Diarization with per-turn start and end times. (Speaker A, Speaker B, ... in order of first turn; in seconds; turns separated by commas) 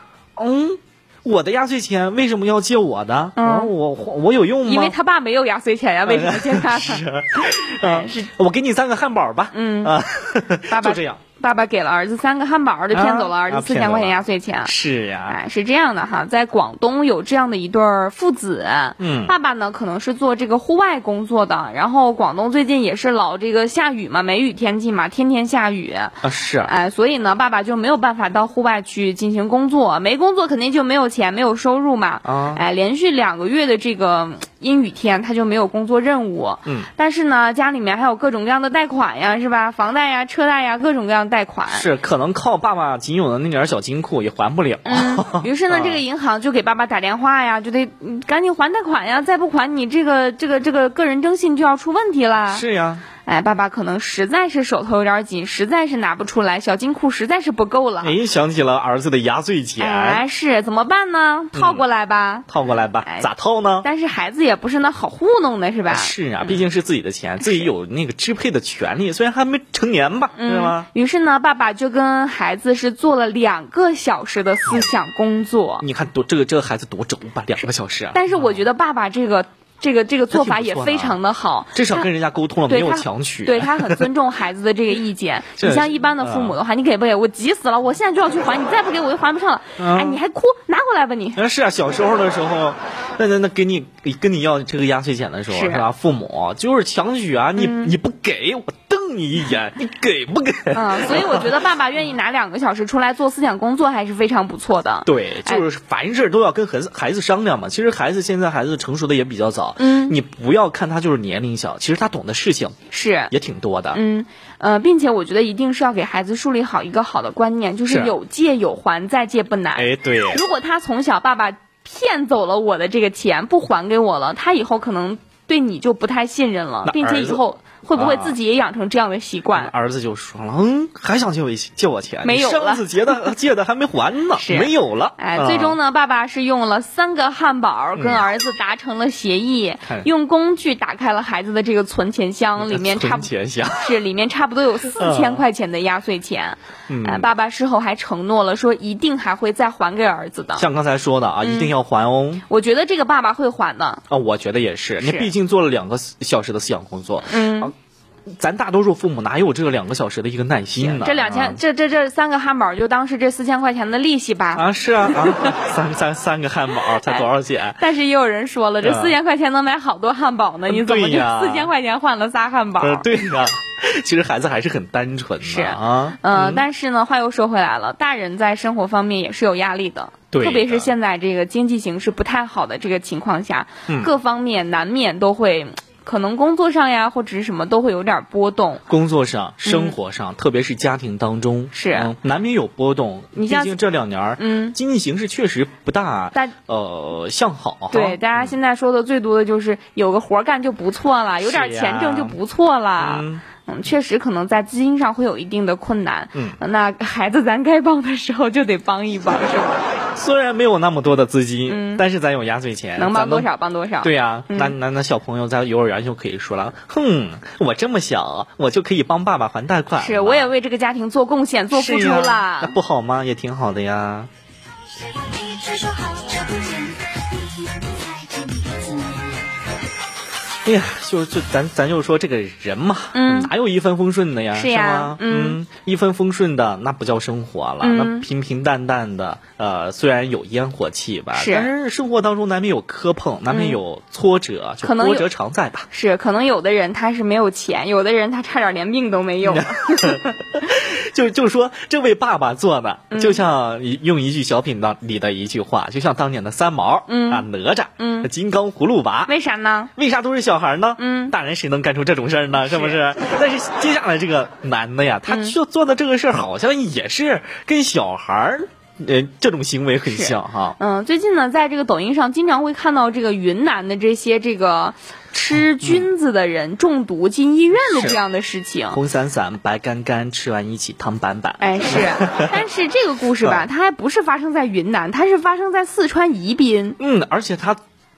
Speaker A: 0.4-4.9, Speaker B: 3.4-3.7, Speaker B: 4.7-8.3, Speaker A: 6.1-11.2, Speaker B: 9.5-10.0, Speaker B: 10.7-14.7, Speaker A: 12.9-15.4, Speaker B: 15.3-41.9, Speaker A: 19.0-19.3, Speaker A: 26.2-26.7, Speaker A: 32.2-32.6, Speaker A: 41.7-46.0, Speaker B: 44.9-52.6, Speaker A: 52.5-53.0, Speaker B: 53.2-58.1, Speaker A: 58.0-60.2, Speaker B: 59.8-62.5, Speaker A: 61.5-61.9, Speaker A: 62.5-63.9, Speaker B: 63.8-66.6, Speaker A: 65.9-70.9, Speaker B: 67.4-67.7, Speaker B: 70.3-75.9, Speaker A: 75.8-78.6, Speaker B: 78.1-82.1, Speaker A: 80.3-81.2, Speaker A: 81.7-84.1, Speaker B: 82.7-91.4, Speaker A: 85.6-86.6, Speaker A: 89.8-90.2, Speaker A: 91.4-101.5, Speaker B: 95.5-95.9, Speaker B: 97.6-97.9, Speaker B: 100.7-105.6, Speaker A: 105.1-114.0, Speaker B: 109.8-110.2, Speaker B: 112.9-113.3, Speaker B: 113.9-129.7, Speaker A: 117.9-118.1, Speaker A: 119.8-120.4, Speaker A: 126.8-127.4, Speaker A: 128.0-128.4, Speaker A: 129.5-135.8, Speaker B: 132.2-133.2, Speaker B: 134.4-150.7, Speaker A: 138.0-138.2, Speaker A: 142.6-143.9, Speaker A: 145.0-145.4, Speaker A: 146.9-147.3, Speaker A: 150.6-152.4, Speaker B: 151.4-151.7, Speaker B: 152.5-154.0, Speaker A: 154.1-157.7, Speaker B: 155.0-155.3, Speaker B: 157.3-157.7, Speaker A: 158.3-161.6, Speaker B: 160.8-165.5, Speaker A: 164.5-167.8, Speaker B: 167.8-173.2, Speaker A: 168.8-169.2, Speaker A: 170.7-171.7, Speaker A: 172.8-176.6, Speaker B: 175.4-188.8, Speaker A: 180.3-180.9, Speaker A: 188.9-198.5, Speaker B: 189.7-190.0, Speaker B: 191.7-192.1, Speaker B: 193.4-193.8, Speaker B: 194.4-194.8, Speaker B: 197.9-209.8, Speaker A: 201.4-202.4, Speaker A: 203.0-203.4, Speaker A: 210.2-213.5, Speaker B: 211.7-212.0, Speaker B: 213.0-214.8, Speaker A: 214.0-220.5, Speaker B: 220.0-222.8, Speaker A: 221.7-224.3, Speaker C: 225.0-229.5, Speaker A: 230.7-245.9, Speaker B: 233.1-233.5, Speaker B: 234.5-235.6, Speaker B: 237.8-238.3, Speaker B: 241.3-241.7, Speaker B: 243.5-243.8, Speaker B: 244.8-245.3, Speaker B: 245.9-250.3, Speaker A: 249.4-259.3, Speaker B: 253.1-253.4, Speaker B: 257.1-257.5, Speaker B: 258.0-258.3, Speaker B: 259.3-259.9, Speaker A: 260.0-270.8, Speaker B: 261.0-261.3, Speaker B: 262.6-263.0, Speaker B: 265.3-265.6, Speaker B: 270.1-279.0, Speaker A: 275.6-276.1, Speaker A: 277.9-278.2, Speaker A: 278.9-282.6, Speaker B: 281.6-287.0, Speaker A: 283.4-283.7, Speaker A: 287.0-287.8